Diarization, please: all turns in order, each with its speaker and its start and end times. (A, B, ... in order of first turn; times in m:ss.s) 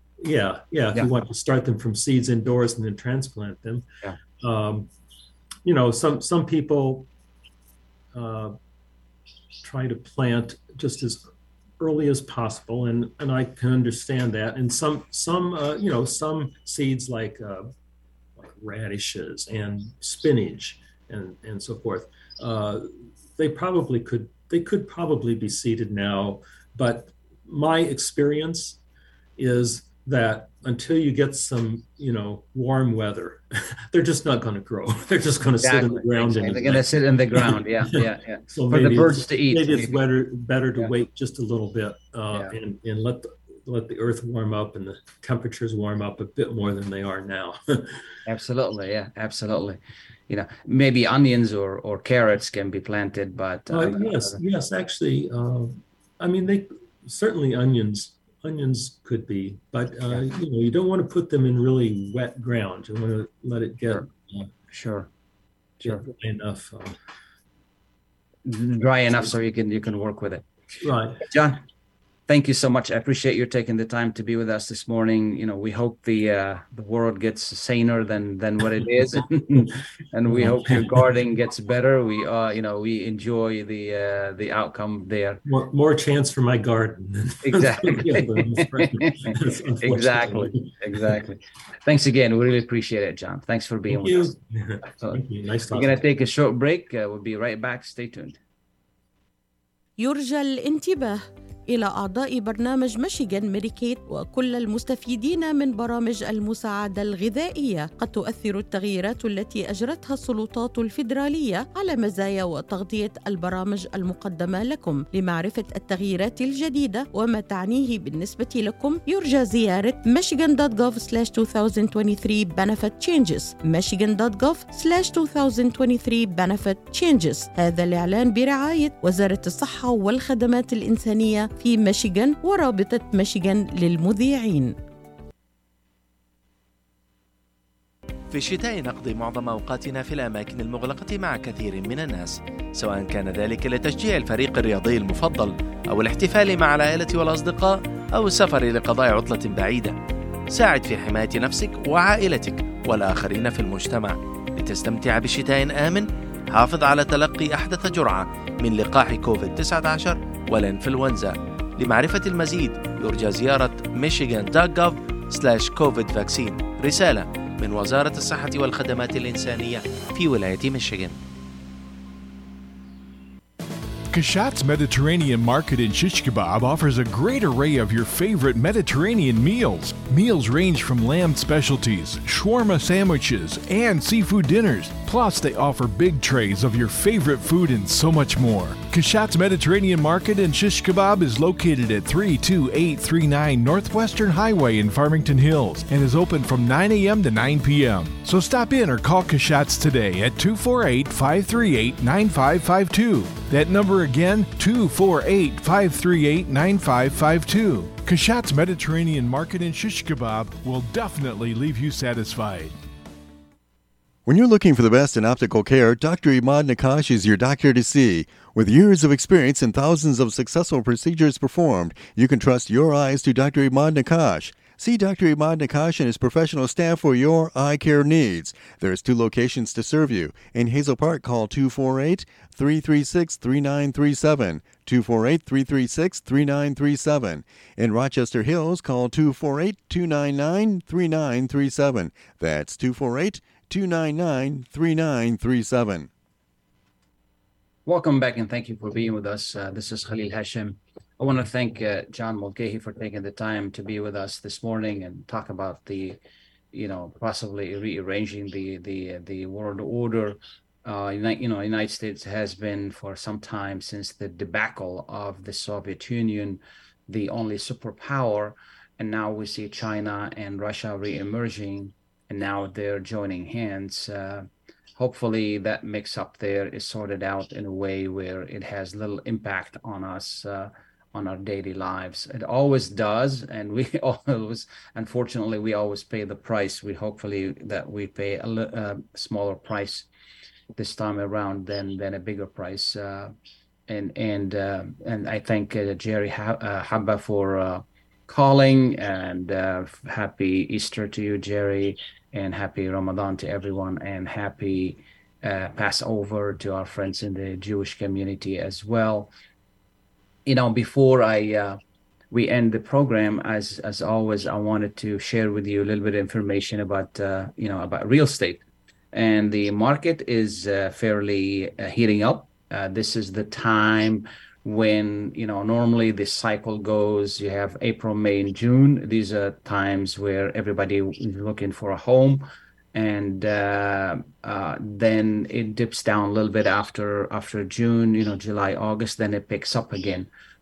0:00.2-0:03.8 A
0:04.4-0:04.9 A
0:05.6-0:07.1 A
0:08.1-0:08.6 A
0:09.6-0:11.2 A
0:11.8-0:17.7 A
0:18.4-0:28.8 A
0:29.4-0:48.0 A
0:35.6-0:40.0 B
0:48.2-0:54.4 B
0:53.7-1:04.5 A
1:04.7-1:05.1 B
1:05.8-1:07.0 A
1:08.4-1:10.4 B
1:10.8-1:11.2 A
1:11.2-1:11.6 B
1:12.3-1:25.4 B
1:20.3-1:21.0 A
1:25.4-1:30.7 A
1:27.4-1:34.3 B
1:33.9-1:36.0 A
1:34.9-1:35.2 B
1:35.7-1:38.4 B
1:40.0-2:14.7 C
2:18.3-2:30.0 D
2:30.5-2:51.2 D
2:54.1-3:32.7 E
3:34.2-4:06.1 F
4:07.8-4:16.2 B
4:16.7-4:50.1 B
4:50.8-4:53.3 B
4:53.9-5:09.3 B
5:10.4-5:11.8 B
5:12.3-5:18.6 B
5:19.1-5:32.4 B
5:32.9-5:40.3 B